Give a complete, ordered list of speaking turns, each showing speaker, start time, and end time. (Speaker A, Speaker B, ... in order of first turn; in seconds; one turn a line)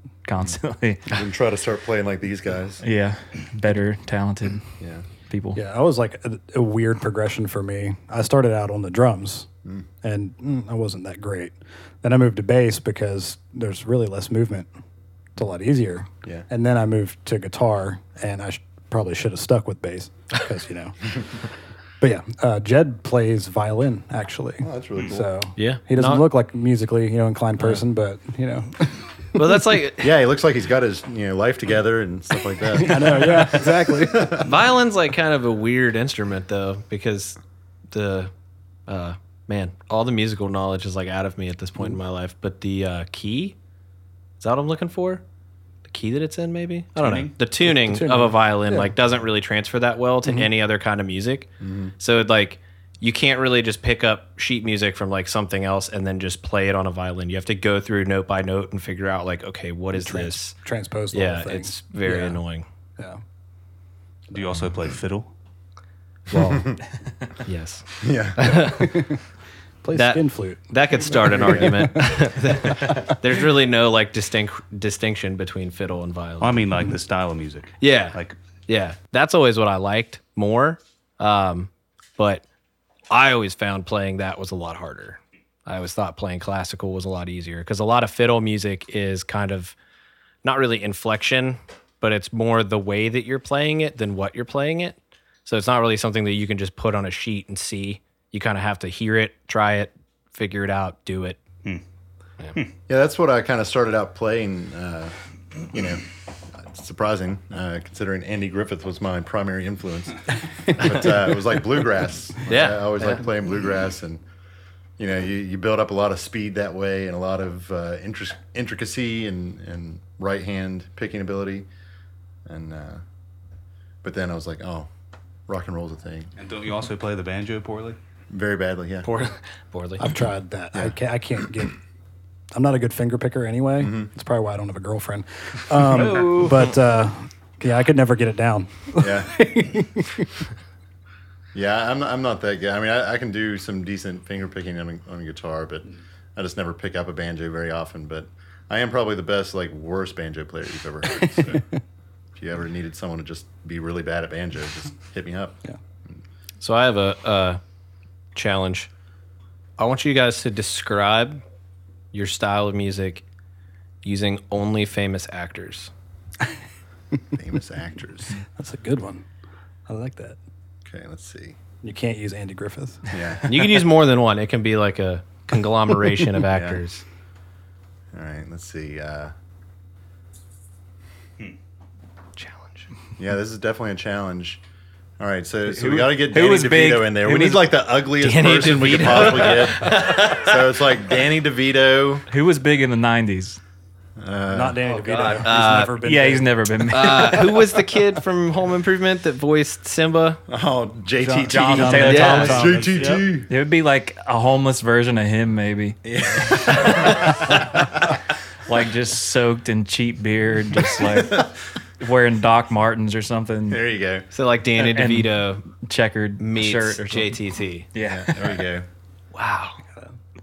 Speaker A: 0.2-1.2
Speaker B: 1.1-2.8
Speaker A: 2.8-4.7
Speaker B: 4.8-5.0
Speaker A: 5.3-5.6
Speaker C: 5.5-9.5
Speaker C: 10.0-14.7
Speaker C: 15.3-21.1
Speaker C: 22.0-29.0
Speaker B: 24.6-25.3
Speaker D: 25.6-26.3
Speaker D: 29.4-30.2
Speaker B: 30.0-34.5
Speaker C: 32.7-34.4
Speaker D: 34.4-37.4
Speaker D: 37.9-38.3
Speaker D: 38.9-43.5
Speaker D: 44.4-45.2
Speaker D: 45.8-60.5
Speaker E: 47.0-47.4
Speaker C: 47.6-48.9
Speaker C: 50.2-50.5
Speaker B: 51.6-51.9
Speaker C: 59.9-62.4
Speaker D: 61.1-62.6
Speaker E: 64.3-65.3
Speaker D: 66.3-66.7
Speaker D: 67.5-68.9
Speaker B: 68.0-68.5
Speaker C: 68.6-69.2
Speaker C: 69.8-72.2
Speaker D: 69.9-76.7
Speaker E: 76.4-78.4
Speaker D: 77.8-82.4
Speaker D: 83.1-89.7
Speaker D: 90.4-101.4
Speaker B: 102.9-105.1
Speaker B: 105.7-106.0
Speaker B: 106.5-114.2
Speaker D: 112.5-113.2
Speaker B: 115.0-121.7
Speaker B: 122.5-123.0
Speaker B: 124.0-124.9
Speaker B: 125.5-126.3
Speaker E: 126.4-128.0
Speaker B: 128.3-129.1
Speaker D: 129.0-130.1
Speaker C: 130.0-131.8
Speaker C: 132.5-140.3
Speaker B: 133.8-134.1
Speaker D: 135.8-136.7
Speaker B: 139.0-139.4
Speaker B: 141.5-151.6
Speaker C: 151.2-151.6
Speaker B: 152.4-155.6
Speaker D: 156.6-157.6
Speaker D: 158.3-158.9
Speaker D: 159.8-161.4
Speaker D: 162.1-163.2
Speaker D: 164.0-165.9
Speaker B: 167.3-168.3
Speaker C: 168.5-169.2
Speaker C: 169.9-170.4
Speaker B: 170.8-171.6
Speaker C: 171.8-173.1
Speaker B: 173.1-173.5
Speaker D: 173.4-177.0
Speaker B: 176.4-176.8
Speaker B: 178.1-179.3
Speaker D: 182.4-182.9
Speaker B: 183.2-184.6
Speaker B: 185.2-192.2
Speaker A: 185.7-187.6
Speaker D: 188.2-190.7
Speaker A: 192.3-193.6
Speaker B: 194.2-194.8
Speaker C: 194.5-196.8
Speaker D: 195.0-196.0
Speaker A: 196.0-197.6
Speaker D: 196.9-200.4
Speaker B: 200.5-203.5
Speaker C: 201.2-203.0
Speaker A: 201.4-206.0
Speaker D: 202.0-202.7
Speaker B: 206.0-207.4
Speaker A: 208.7-211.5
Speaker A: 212.0-213.8
Speaker B: 213.7-214.3
Speaker D: 214.3-215.7
Speaker A: 214.8-217.3
Speaker D: 216.4-217.9
Speaker A: 217.9-218.5
Speaker B: 218.0-218.8
Speaker D: 219.3-219.8